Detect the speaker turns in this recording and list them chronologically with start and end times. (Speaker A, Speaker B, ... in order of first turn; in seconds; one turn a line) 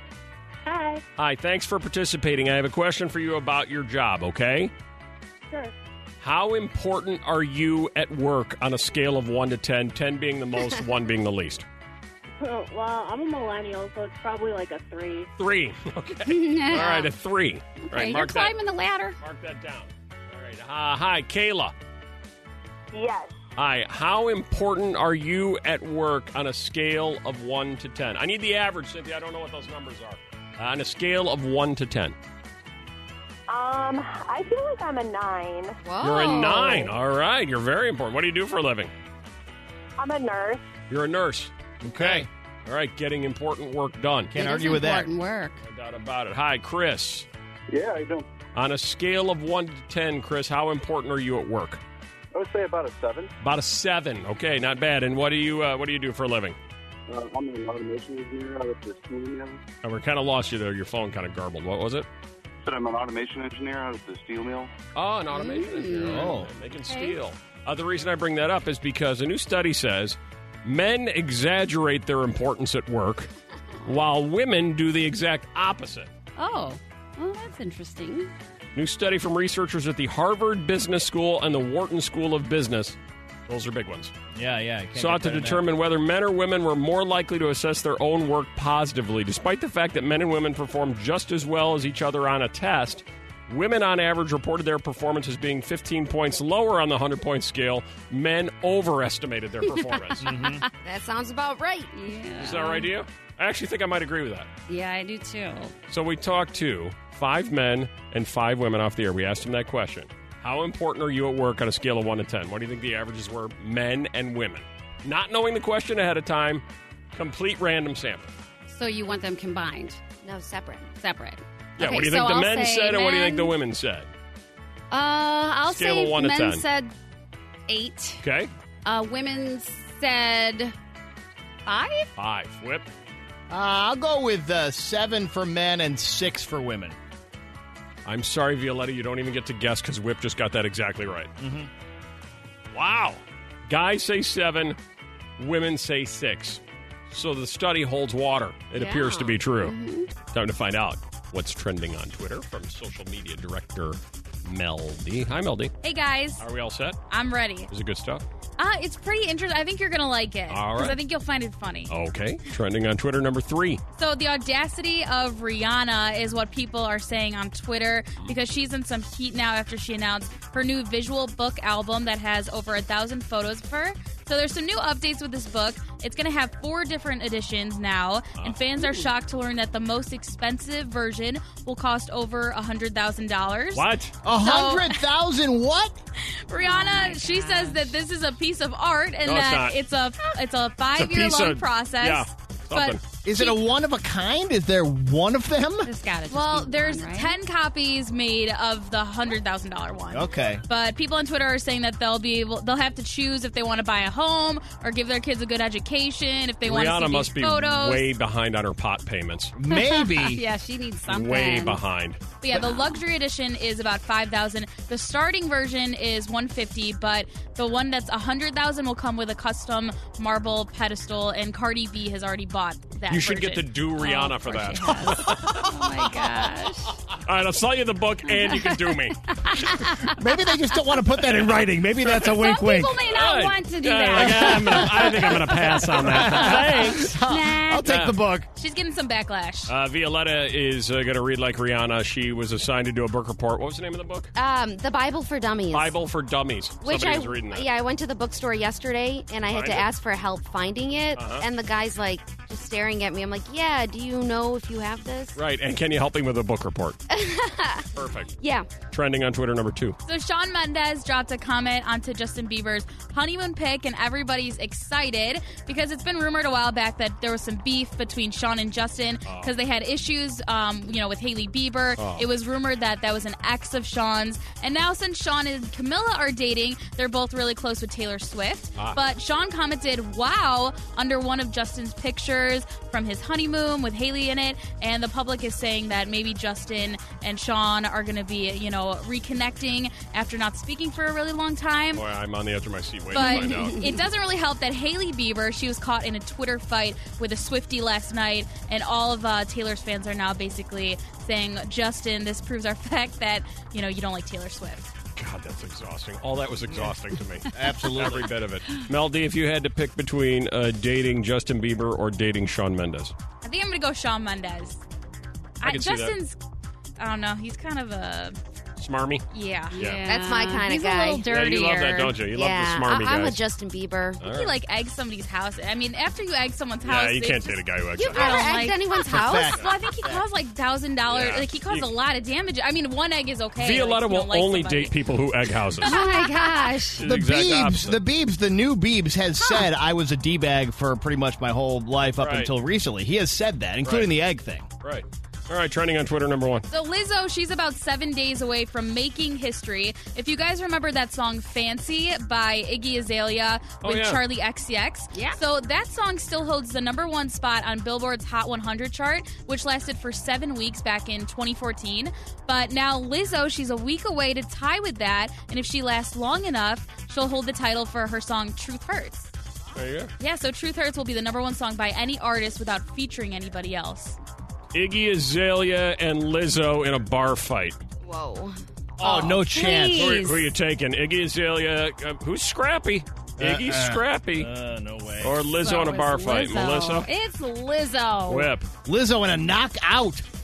Speaker A: 0.7-1.0
Speaker B: 1.2-4.7
Speaker B: 6.2-11.6
Speaker A: 12.4-15.2
Speaker B: 15.4-18.5
Speaker C: 16.2-17.1
Speaker C: 17.8-19.1
Speaker B: 19.2-21.7
Speaker B: 23.6-32.1
Speaker D: 33.5-35.6
Speaker E: 35.8-36.9
Speaker B: 36.0-38.9
Speaker D: 40.0-40.5
Speaker B: 40.9-44.3
Speaker F: 44.3-45.1
Speaker C: 44.3-45.6
Speaker B: 45.6-47.3
Speaker G: 47.7-48.2
Speaker B: 48.5-51.8
Speaker G: 52.3-53.3
Speaker B: 53.4-56.6
Speaker G: 57.1-59.6
Speaker B: 59.8-62.1
Speaker G: 62.6-64.7
Speaker B: 64.9-73.3
Speaker C: 65.3-66.4
Speaker F: 66.1-66.5
Speaker B: 73.8-76.1
Speaker C: 76.3-78.3
Speaker B: 78.7-83.0
Speaker B: 83.5-84.1
Speaker F: 84.3-85.7
Speaker B: 84.9-100.3
Speaker C: 99.7-100.7
Speaker F: 100.2-100.6
Speaker E: 100.8-102.0
Speaker C: 101.9-102.9
Speaker B: 102.4-104.5
Speaker C: 104.7-105.7
Speaker B: 105.9-118.3
Speaker C: 118.7-120.0
Speaker E: 120.2-120.9
Speaker C: 121.0-123.5
Speaker B: 121.8-124.1
Speaker C: 124.9-126.9
Speaker B: 125.7-126.6
Speaker C: 127.7-128.2
Speaker B: 128.2-128.5
Speaker C: 128.8-130.7
Speaker C: 131.7-132.1
Speaker B: 132.2-132.8
Speaker F: 133.5-136.9
Speaker B: 138.0-141.3
Speaker F: 141.4-141.7
Speaker B: 142.7-144.8
Speaker B: 145.4-155.7
Speaker E: 148.7-149.4
Speaker C: 149.6-150.1
Speaker H: 155.8-156.4
Speaker B: 156.4-157.0
Speaker H: 157.1-157.7
Speaker B: 157.7-158.2
Speaker H: 158.6-161.9
Speaker B: 160.5-161.0
Speaker B: 161.9-163.8
Speaker H: 164.0-183.8
Speaker B: 178.4-178.8
Speaker B: 183.7-184.1
Speaker F: 184.2-185.9
Speaker H: 184.4-185.0
Speaker H: 186.2-193.6
Speaker C: 186.6-187.9
Speaker B: 189.2-189.8
Speaker B: 190.9-193.0
Speaker F: 193.2-195.9
Speaker C: 195.8-197.3
Speaker H: 196.3-208.1
Speaker F: 200.1-200.6
Speaker B: 206.6-209.5
Speaker F: 209.6-210.4
Speaker C: 209.7-211.8
Speaker B: 211.1-212.2
Speaker H: 212.4-223.7
Speaker C: 212.5-213.0
Speaker B: 223.1-225.6
Speaker C: 224.0-227.0
Speaker B: 227.2-229.2
Speaker C: 228.3-230.2
Speaker F: 230.1-233.0
Speaker B: 232.0-232.3
Speaker C: 232.2-235.2
Speaker B: 233.1-237.1
Speaker F: 234.1-238.5
Speaker C: 236.2-237.8
Speaker B: 237.8-238.2
Speaker H: 238.5-239.7
Speaker B: 239.7-244.3
Speaker E: 244.3-245.9
Speaker B: 245.7-247.7
Speaker E: 246.8-255.4
Speaker B: 249.4-249.9
Speaker B: 251.2-251.4
Speaker B: 255.3-257.0
Speaker E: 257.1-257.9
Speaker B: 257.9-258.3
Speaker E: 258.4-258.7
Speaker B: 258.9-260.0
Speaker H: 260.1-292.0
Speaker B: 269.2-269.5
Speaker B: 272.0-272.2
Speaker B: 291.9-293.8
Speaker H: 293.1-304.9
Speaker C: 293.1-294.0
Speaker B: 305.1-313.1
Speaker F: 307.5-308.3
Speaker H: 313.4-314.8
Speaker H: 315.6-316.4
Speaker B: 315.6-316.1
Speaker H: 317.0-318.4
Speaker B: 318.8-319.2
Speaker H: 319.3-319.8
Speaker C: 319.7-322.1
Speaker B: 319.8-320.0
Speaker E: 320.0-321.3
Speaker B: 321.2-323.4
Speaker E: 322.2-324.2
Speaker B: 324.2-324.5
Speaker H: 324.2-327.6
Speaker B: 326.8-328.4
Speaker E: 328.0-329.7
Speaker H: 328.1-335.0
Speaker F: 329.0-330.2
Speaker B: 331.1-331.9
Speaker B: 333.6-336.0
Speaker H: 335.8-336.1
Speaker C: 335.8-337.0
Speaker B: 337.0-338.0
Speaker F: 337.0-344.7
Speaker C: 339.4-339.7
Speaker B: 342.2-342.5
Speaker B: 343.8-344.1
Speaker B: 344.8-346.6
Speaker H: 346.7-369.3
Speaker B: 353.8-354.2
Speaker C: 355.1-355.4
Speaker B: 369.7-370.1
Speaker H: 370.2-374.2
Speaker B: 374.7-377.8
Speaker E: 378.0-378.6
Speaker F: 379.0-380.4
Speaker C: 379.0-380.4
Speaker B: 379.9-384.5
Speaker F: 383.4-385.5
Speaker B: 385.2-387.1
Speaker C: 385.6-388.5
Speaker B: 388.3-388.7
Speaker F: 388.8-390.2